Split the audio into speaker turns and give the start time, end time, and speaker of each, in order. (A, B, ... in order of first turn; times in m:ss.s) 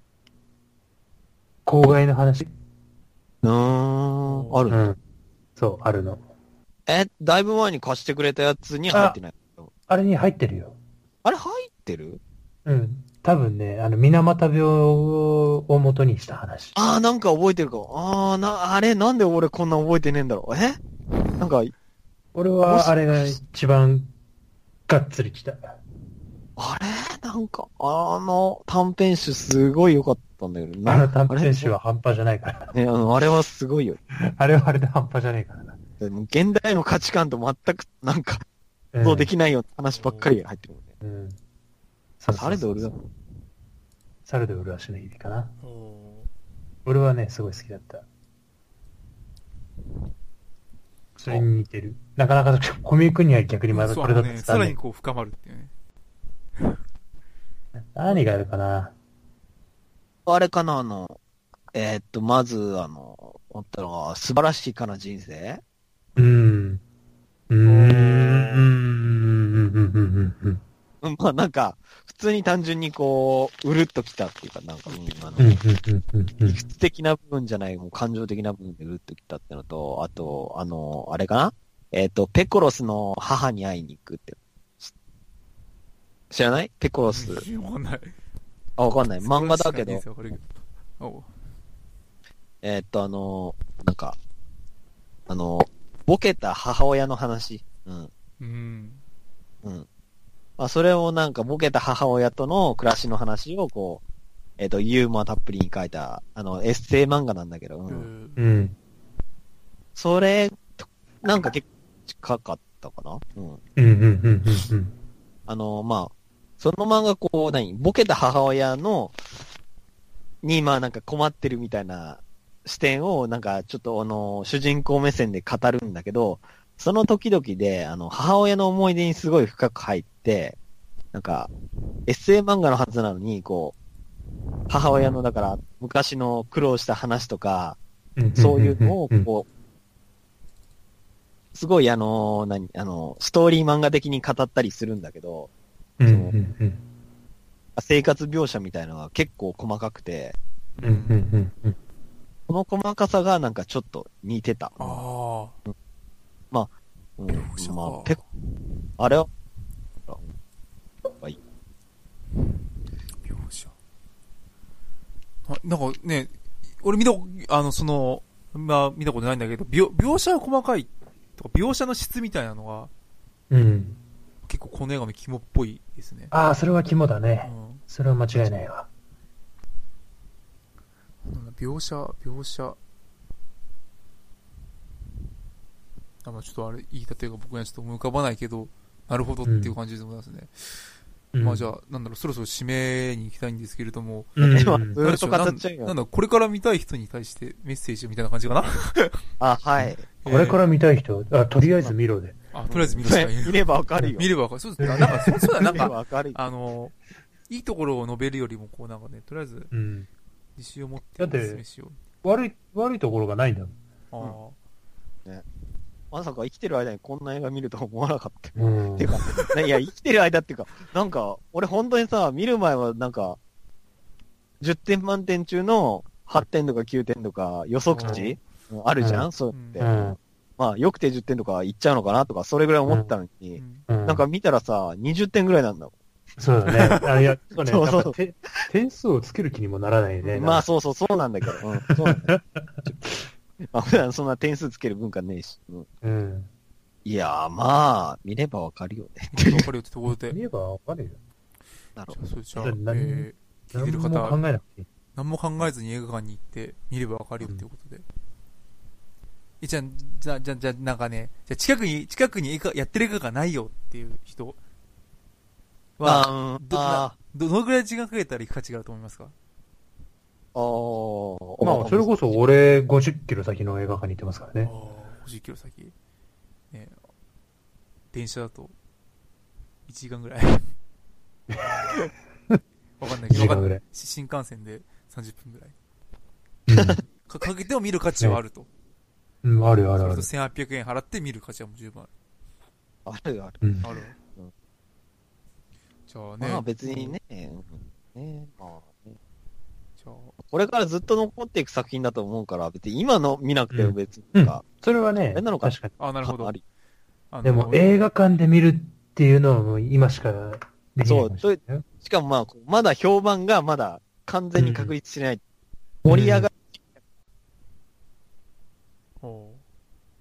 0:01.7-0:02.5 A
0:03.4-0:04.8 B
0:04.3-0:04.7 C
0:04.7-0:05.0 A
0:05.6-0:06.2 A
0:06.9-0:09.7 B
0:08.9-0:09.2 A
0:09.9-0:10.8 A
0:11.2-0:12.2 B
0:12.6-0:16.8 A
0:16.8-0:20.8 B
0:21.4-0:21.7 B
0:22.4-0:24.1 A
0:22.7-0:23.4 B
0:24.9-0:25.8 A
0:26.6-0:31.7 B
0:30.9-0:32.7 A
0:32.7-0:34.0 B
0:34.2-0:35.8 A
0:36.0-0:38.4 B
0:38.9-0:39.3 A
0:39.0-0:40.9 B
0:39.9-0:40.3 C
0:41.0-0:41.4 A
0:42.2-0:42.9 A
0:42.3-0:43.0 B
0:44.3-0:45.5 A
0:45.6-0:46.3 C
0:46.9-0:48.0 A
0:51.2-0:54.8 A
0:53.7-0:55.7 C
0:57.8-0:58.9 A
1:00.3-1:01.2 B
1:01.7-1:05.6 B
1:06.2-1:06.8 A
1:07.5-1:10.6 A
1:07.6-1:08.7 C
1:11.0-1:15.5 B
1:14.9-1:15.5 C
1:15.4-1:16.6 A
1:16.4-1:24.9 B
1:26.3-1:27.4 B
1:27.0-1:28.1 C
1:28.8-1:30.0 B
1:29.2-1:31.3 C
1:32.6-1:34.2 B
1:35.3-1:38.1 B
1:38.4-1:39.0 C
1:40.6-1:44.0 B
1:44.6-1:48.1 B
1:47.9-1:48.4 C
1:48.4-1:48.8 A
1:50.0-1:53.6 B
1:53.8-1:54.9 A
1:55.5-1:59.2 B
2:00.4-2:10.6 B
2:11.1-2:11.5 B
2:12.1-2:13.8 B
2:14.7-2:17.8 B
2:18.2-2:19.3 A
2:18.4-2:19.5 B
2:21.5-2:25.5 B
2:26.0-2:26.8 A
2:26.1-2:26.3 B
2:27.8-2:30.4 B
2:30.8-2:31.2 C
2:30.8-2:31.8 A
2:32.5-2:35.0 B
2:34.8-2:35.6 C
2:36.5-2:38.2 B
2:37.3-2:38.2 C
2:39.0-2:39.3 B
2:43.2-2:43.7 C
2:45.5-2:52.9 C
2:53.5-2:54.0 A
2:54.5-2:56.3 C
2:56.3-2:58.9 A
2:57.4-2:58.6 C
3:01.2-3:02.8 C
3:06.2-3:10.5 C
3:09.4-3:09.8 A
3:11.3-3:11.7 A
3:11.4-3:19.2 C
3:14.4-3:15.0 A
3:14.4-3:15.9 B
3:19.4-3:20.0 B
3:20.1-3:20.6 C
3:20.2-3:22.4 A
3:21.6-3:22.0 C
3:22.5-3:27.0 C
3:22.7-3:24.3 B
3:24.8-3:25.9 A
3:25.0-3:26.4 B
3:27.5-3:29.7 C
3:29.7-3:30.1 A
3:30.6-3:32.0 C
3:31.2-3:31.6 A
3:32.2-3:33.8 A
3:34.1-3:34.6 C
3:36.1-3:43.4 B
3:38.6-3:39.2 A
3:44.6-3:55.9 B
3:47.9-3:48.4 C
3:48.0-3:48.3 A
3:49.0-3:49.3 A
3:49.5-3:49.9 C
3:49.8-3:50.2 A
3:52.9-3:53.1 A
3:53.6-3:53.9 C
3:53.9-3:54.2 A
3:56.4-4:00.7 A
3:56.7-3:57.1 B
3:57.6-3:58.7 B
4:00.2-4:02.4 B
4:01.9-4:03.3 A
4:03.7-4:05.9 B
4:06.0-4:06.5 A
4:07.0-4:09.7 B
4:09.3-4:10.4 C
4:10.3-4:11.2 A
4:12.1-4:14.4 C
4:12.6-4:14.9 A
4:15.2-4:18.0 C
4:19.6-4:24.6 C
4:26.0-4:29.3 C
4:26.0-4:27.2 B
4:30.6-4:32.1 B
4:31.6-4:34.7 A
4:34.6-4:36.0 C
4:36.7-4:37.0 C
4:38.1-4:38.7 C
4:39.9-4:40.7 C
4:41.5-4:41.9 A
4:43.0-4:45.8 C
4:43.3-4:43.8 A
4:46.7-4:47.0 A
4:46.7-4:47.0 B
4:47.3-4:48.7 C
4:49.4-4:50.3 A
4:50.0-4:52.1 C
4:53.1-4:53.6 B
4:53.8-4:54.2 C
4:56.1-4:57.2 C
4:56.4-4:59.2 B
5:00.0-5:00.4 C
5:00.4-5:04.6 B
5:03.7-5:06.0 A
5:05.3-5:06.6 B
5:06.0-5:06.6 C
5:07.3-5:08.1 C
5:07.4-5:11.8 A
5:11.1-5:15.4 B
5:14.6-5:14.9 A
5:16.0-5:16.8 B
5:16.1-5:16.5 A
5:19.2-5:19.6 C